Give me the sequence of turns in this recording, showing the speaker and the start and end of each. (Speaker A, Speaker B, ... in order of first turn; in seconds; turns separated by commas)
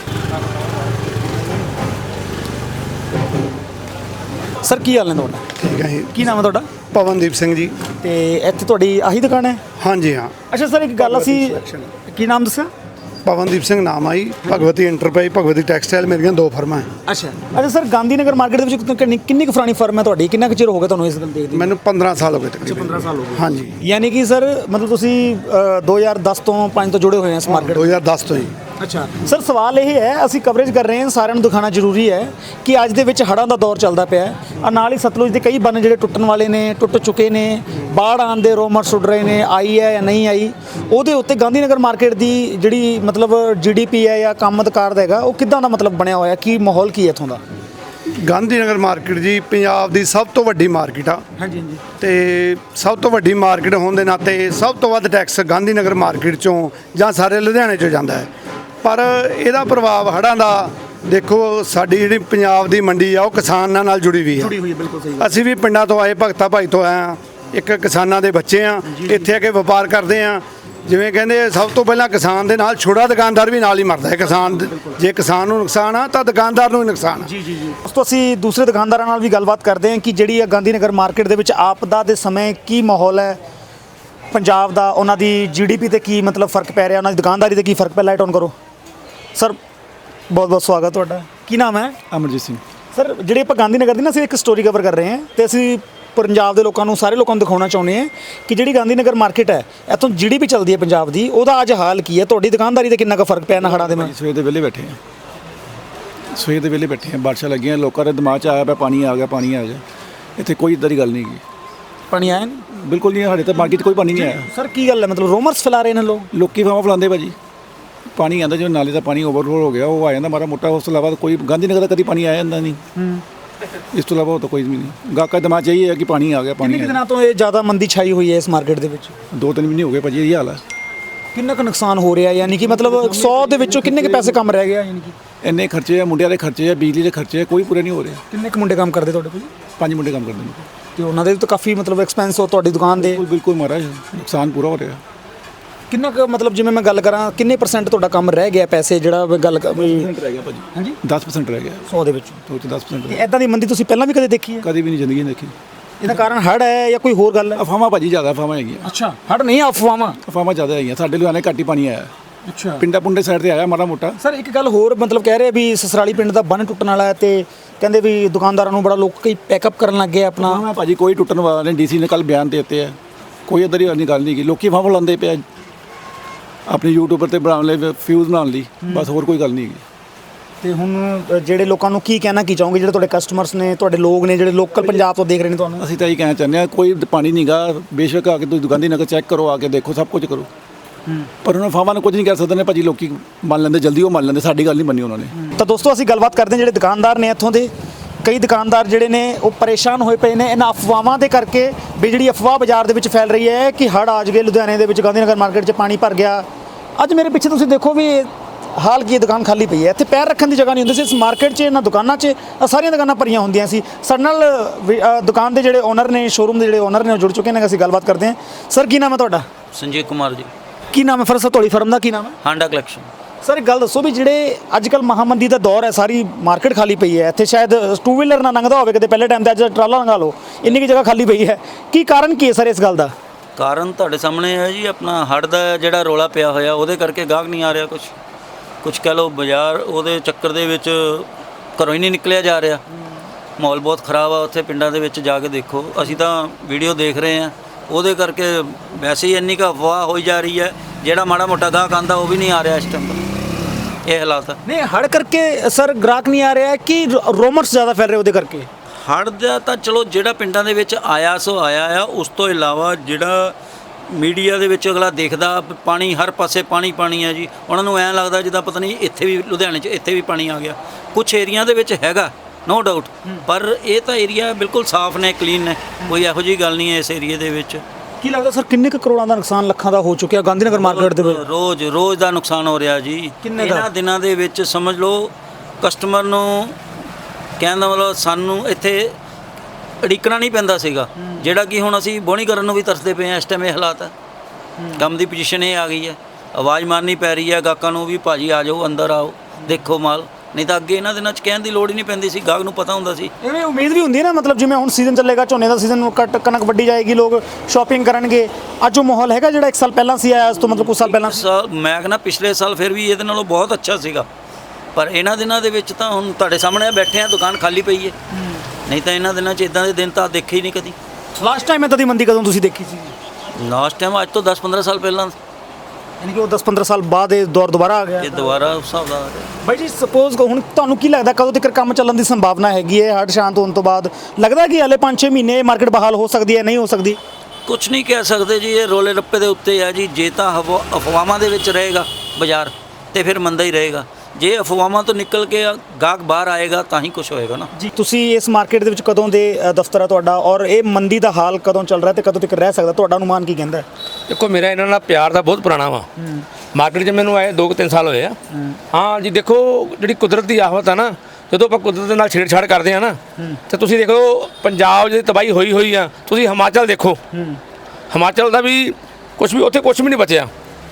Speaker A: 4.6-5.5, Speaker B: 5.6-6.3, Speaker A: 6.1-6.7, Speaker B: 6.8-7.8, Speaker A: 8.0-9.6, Speaker B: 9.8-10.3, Speaker A: 10.5-12.7, Speaker B: 13.2-16.9, Speaker A: 17.1-21.7, Speaker B: 21.5-23.8, Speaker A: 22.6-28.0, Speaker B: 27.5-28.5, Speaker A: 28.8-47.4, Speaker B: 48.2-51.2, Speaker A: 51.4-51.8, Speaker B: 52.0-58.3, Speaker B: 58.8-64.5, Speaker A: 64.3-65.4, Speaker B: 65.2-77.3, Speaker A: 68.9-69.3, Speaker A: 74.2-75.0, Speaker A: 77.2-83.4, Speaker A: 84.3-88.5, Speaker A: 90.3-92.0, Speaker C: 92.1-92.6, Speaker A: 92.9-104.1, Speaker C: 103.6-105.0, Speaker C: 106.3-109.8, Speaker C: 110.4-111.4, Speaker A: 112.1-112.6, Speaker C: 112.8-114.5, Speaker A: 114.1-116.3, Speaker C: 116.3-117.4, Speaker C: 118.2-122.8, Speaker A: 123.0-123.2, Speaker C: 123.9-127.0, Speaker A: 126.6-129.1, Speaker C: 129.3-130.6, Speaker A: 131.3-135.1, Speaker C: 132.5-134.4, Speaker C: 135.4-138.2, Speaker A: 138.3-139.5, Speaker C: 139.8-140.7, Speaker A: 140.9-143.2, Speaker C: 142.9-145.0, Speaker A: 145.9-150.1, Speaker C: 149.8-151.8, Speaker A: 151.9-152.4, Speaker C: 152.4-153.2, Speaker A: 153.1-154.7, Speaker C: 154.6-155.6, Speaker A: 156.0-157.6, Speaker C: 157.6-158.9, Speaker A: 158.8-160.2, Speaker C: 160.2-162.1, Speaker A: 162.5-162.8, Speaker C: 162.8-164.2, Speaker A: 164.2-170.6, Speaker C: 170.4-175.4, Speaker C: 176.7-179.8, Speaker A: 180.6-185.8, Speaker C: 185.8-190.5, Speaker C: 191.4-195.3, Speaker A: 195.4-197.7, Speaker A: 198.2-206.4, Speaker A: 207.0-219.4, Speaker D: 219.7-220.5, Speaker A: 220.9-222.4, Speaker D: 222.4-223.1, Speaker A: 223.4-233.1, Speaker D: 233.6-238.1, Speaker D: 238.8-242.8, Speaker D: 243.6-253.3, Speaker D: 254.1-254.6, Speaker A: 254.6-258.7, Speaker D: 259.0-263.6, Speaker D: 264.1-277.8, Speaker A: 278.2-281.4, Speaker D: 280.7-286.8, Speaker A: 283.4-283.9, Speaker D: 287.6-289.1, Speaker D: 290.0-294.1, Speaker D: 294.9-303.3, Speaker A: 303.4-311.4, Speaker D: 310.9-314.3, Speaker D: 314.9-318.1, Speaker D: 318.9-320.9, Speaker A: 321.3-323.1, Speaker D: 323.6-325.3, Speaker A: 326.2-328.5, Speaker D: 328.2-329.5, Speaker A: 329.6-337.2, Speaker D: 337.6-347.7, Speaker A: 347.8-353.9, Speaker E: 354.3-356.1, Speaker A: 356.2-356.4, Speaker E: 356.7-358.4, Speaker A: 358.5-358.8, Speaker E: 358.9-367.2, Speaker A: 367.3-367.6, Speaker E: 368.1-370.5